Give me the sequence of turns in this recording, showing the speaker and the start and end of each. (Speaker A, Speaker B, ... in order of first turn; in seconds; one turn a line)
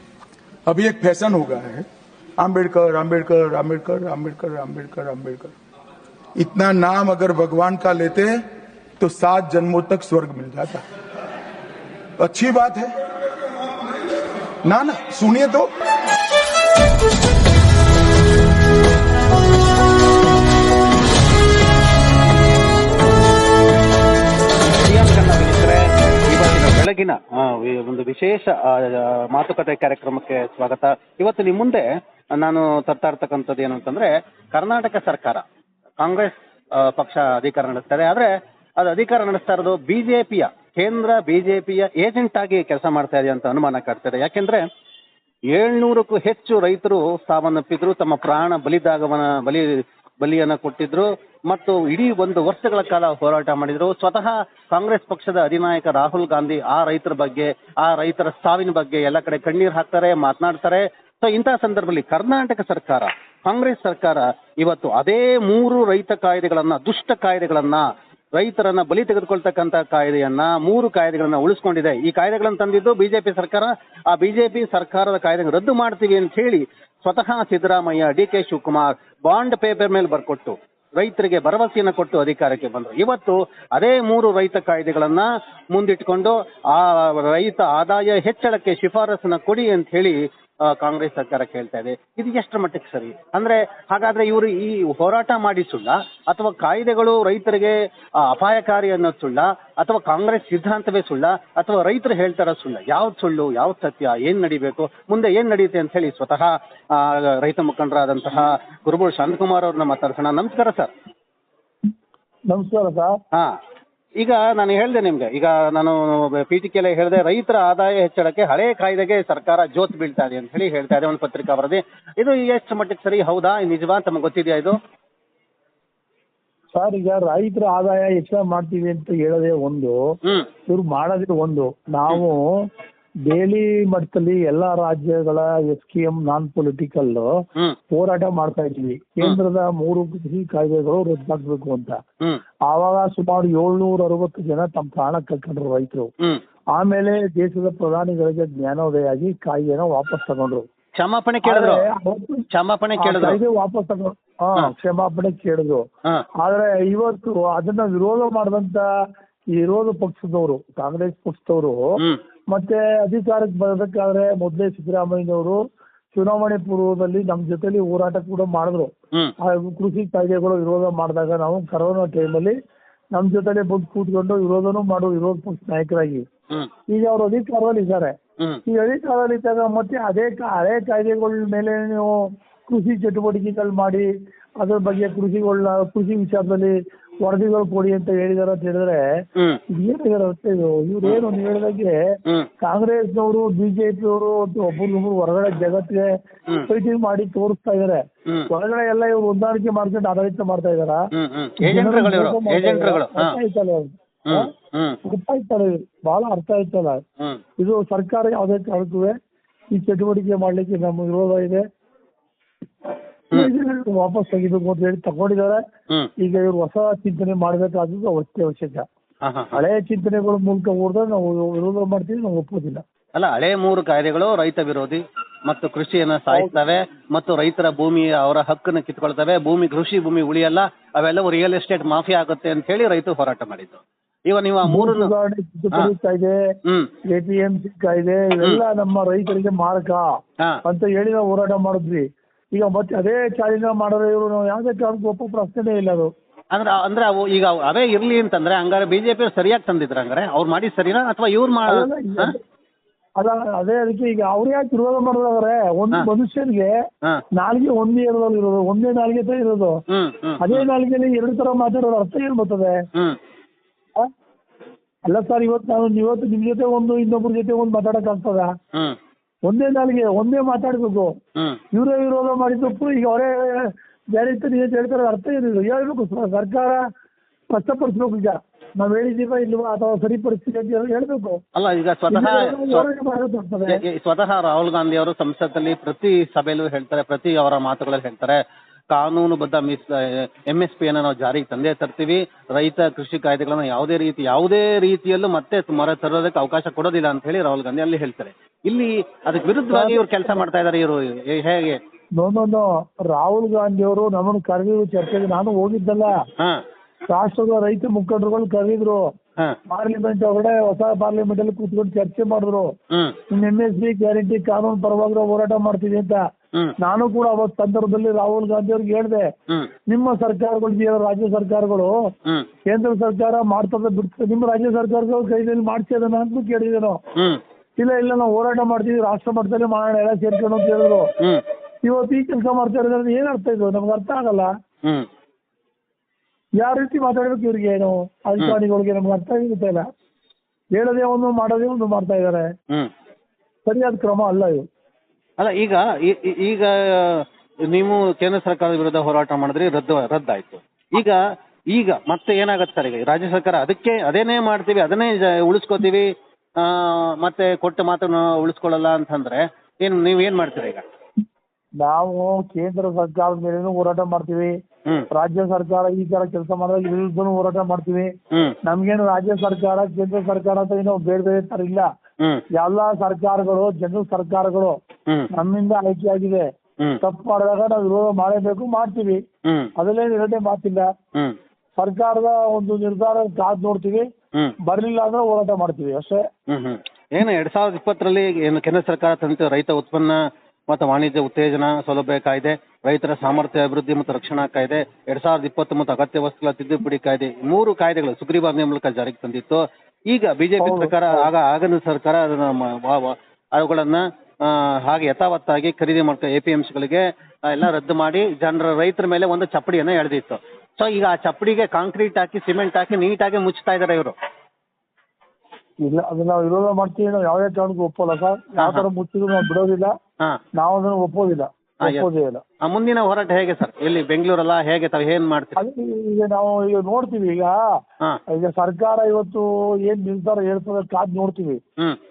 Speaker A: 0.7-1.9
Speaker A: 2.4-5.5
Speaker A: 6.4-8.4
Speaker A: 9.0-10.8
Speaker A: 12.2-12.9
Speaker A: 14.7-15.7
Speaker B: 24.6-35.4
Speaker B: 36.0-44.6
Speaker B: 45.5-110.9
Speaker C: 112.5-113.2
Speaker B: 114.2-124.8
Speaker C: 126.7-130.0
Speaker C: 130.7-132.7
Speaker C: 133.3-137.3
Speaker C: 137.9-142.0
Speaker C: 142.7-146.1
Speaker C: 146.8-150.7
Speaker B: 151.0-151.9
Speaker C: 151.4-152.5
Speaker B: 152.5-153.4
Speaker C: 153.0-155.8
Speaker C: 156.4-158.8
Speaker C: 159.6-161.9
Speaker C: 162.5-165.6
Speaker C: 166.1-172.6
Speaker C: 173.1-176.2
Speaker C: 176.9-184.1
Speaker C: 184.6-189.0
Speaker C: 189.7-192.0
Speaker C: 192.6-196.1
Speaker C: 196.7-201.0
Speaker B: 201.1-203.3
Speaker C: 201.6-204.5
Speaker B: 204.3-205.0
Speaker C: 205.0-207.0
Speaker C: 207.6-209.2
Speaker C: 209.7-211.6
Speaker C: 213.3-215.6
Speaker C: 216.2-218.9
Speaker B: 219.2-219.6
Speaker C: 219.5-222.8
Speaker B: 223.2-235.1
Speaker C: 234.7-236.4
Speaker C: 237.1-240.1
Speaker C: 240.7-246.1
Speaker B: 246.5-252.3
Speaker C: 251.7-252.4
Speaker C: 253.2-256.7
Speaker C: 257.4-259.8
Speaker B: 259.9-260.7
Speaker C: 260.4-262.8
Speaker C: 265.1-268.5
Speaker C: 269.5-271.2
Speaker C: 271.7-276.9
Speaker C: 277.5-281.4
Speaker B: 281.6-282.9
Speaker C: 282.1-283.8
Speaker B: 283.7-288.4
Speaker B: 288.9-301.8
Speaker C: 299.7-300.4
Speaker C: 302.2-306.1
Speaker C: 307.1-309.0
Speaker C: 309.7-312.7
Speaker B: 312.9-313.2
Speaker C: 313.3-316.2
Speaker C: 316.8-319.3
Speaker C: 319.9-321.9
Speaker C: 322.7-327.0
Speaker C: 327.8-331.1
Speaker C: 331.8-334.5
Speaker C: 336.6-339.9
Speaker C: 340.8-342.5
Speaker C: 343.7-344.7
Speaker B: 345.4-351.2
Speaker B: 351.7-360.8
Speaker C: 361.8-364.6
Speaker C: 365.1-368.1
Speaker C: 368.6-371.9
Speaker C: 372.6-374.8
Speaker C: 375.3-376.5
Speaker C: 377.0-379.2
Speaker B: 379.5-379.7
Speaker C: 379.8-380.9
Speaker C: 381.8-384.1
Speaker C: 384.6-386.3
Speaker B: 386.5-414.1
Speaker C: 400.6-401.3
Speaker C: 415.8-419.9
Speaker B: 418.6-418.9
Speaker C: 420.6-422.4
Speaker B: 421.8-422.1
Speaker B: 422.6-425.6
Speaker C: 425.6-427.6
Speaker C: 428.3-431.6